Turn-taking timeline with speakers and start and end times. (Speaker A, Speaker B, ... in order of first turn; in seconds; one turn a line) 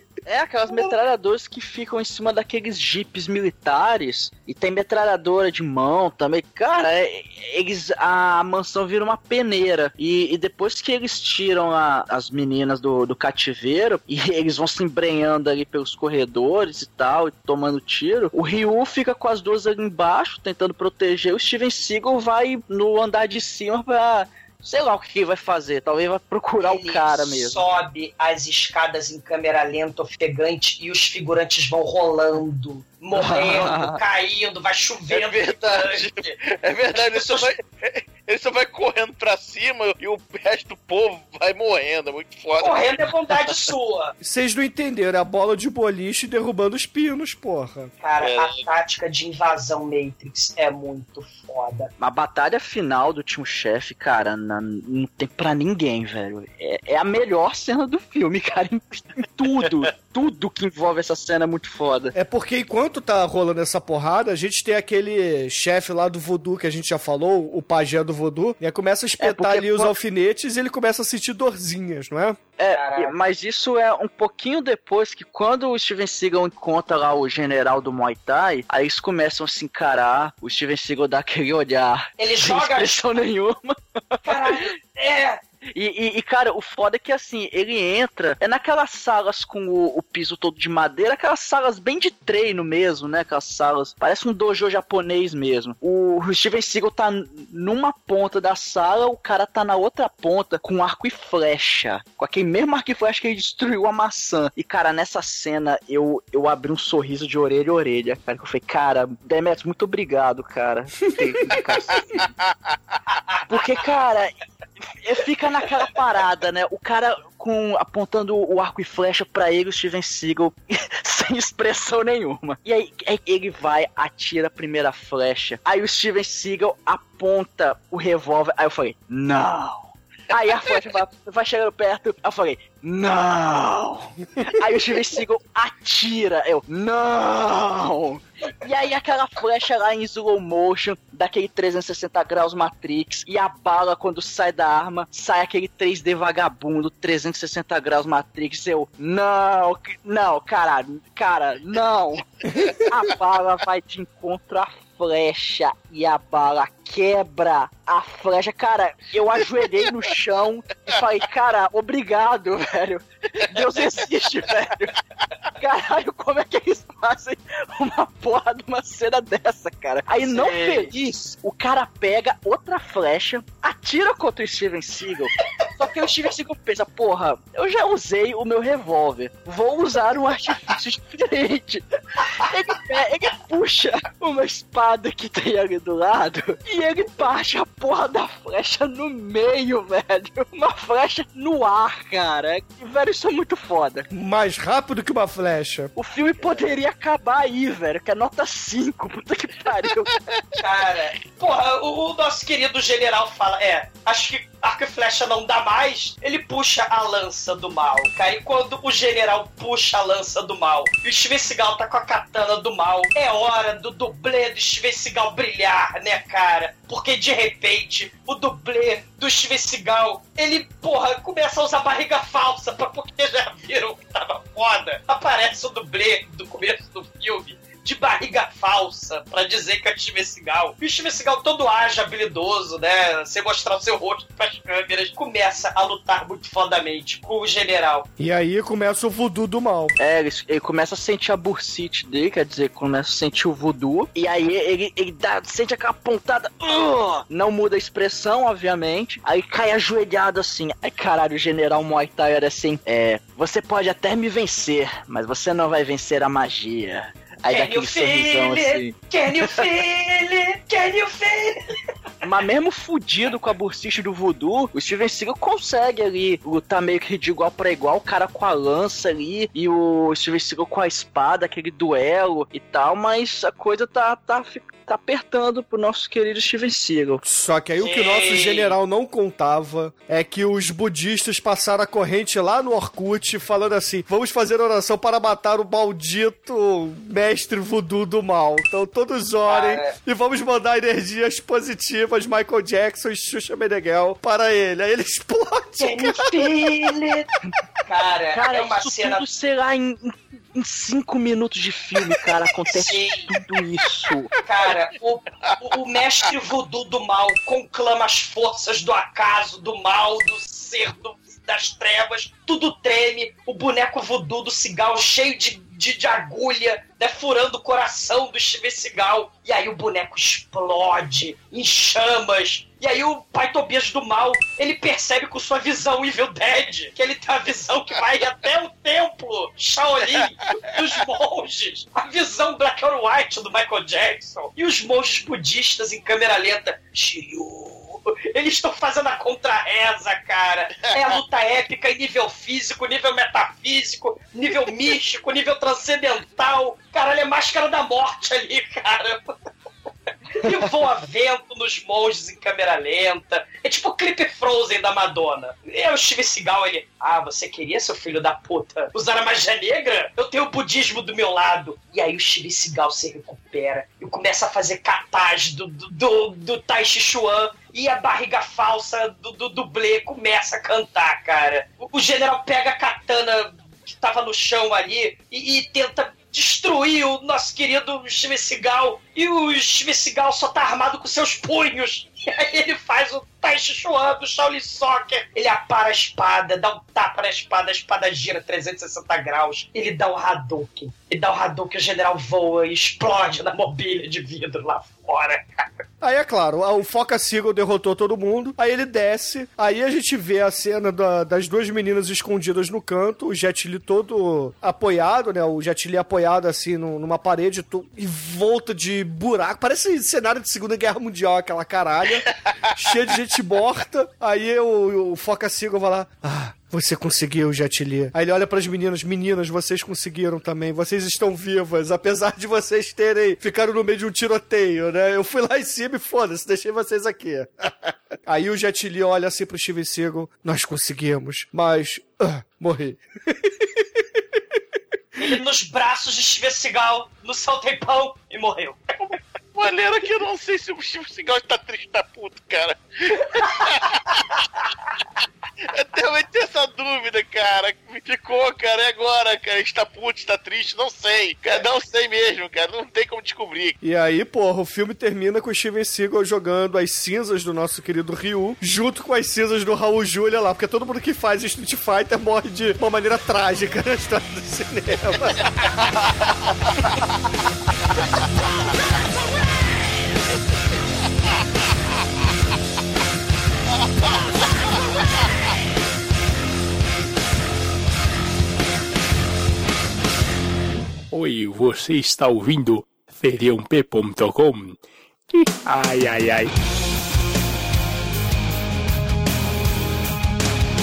Speaker A: 0.3-27.6
Speaker B: 26.6-36.3
Speaker A: 33.1-34.0
Speaker C: 35.1-43.5
Speaker B: 36.9-37.5
Speaker B: 42.6-44.1
Speaker D: 44.2-47.9
Speaker B: 48.0-51.9
Speaker C: 48.2-48.6
Speaker A: 52.0-62.1
Speaker D: 62.1-72.4
Speaker A: 69.2-69.9
Speaker A: 72.6-84.6
Speaker B: 72.7-73.2
Speaker B: 82.2-83.0
Speaker B: 84.3-85.4
Speaker A: 85.7-112.3
Speaker B: 113.3-113.7
Speaker A: 113.5-114.3
Speaker A: 115.0-165.0
Speaker B: 163.5-164.0
Speaker A: 165.6-194.1
Speaker B: 170.2-170.9
Speaker D: 194.1-195.9
Speaker A: 195.9-200.2
Speaker B: 200.6-238.1
Speaker D: 238.2-239.9
Speaker A: 240.0-259.6
Speaker B: 257.5-261.7
Speaker A: 262.2-277.2
Speaker D: 277.2-296.4
Speaker B: 277.8-278.8
Speaker B: 289.5-289.9
Speaker B: 295.8-297.3
Speaker B: 297.9-299.2
Speaker A: 298.3-304.3
Speaker B: 302.7-303.3
Speaker B: 304.4-349.2
Speaker B: 350.3-395.6
Speaker D: 396.0-434.2
Speaker B: 435.2-439.2
Speaker C: 439.6-444.2
Speaker C: 445.7-453.8
Speaker D: 453.8-466.1
Speaker E: 481.1-484.8
Speaker E: 485.3-486.5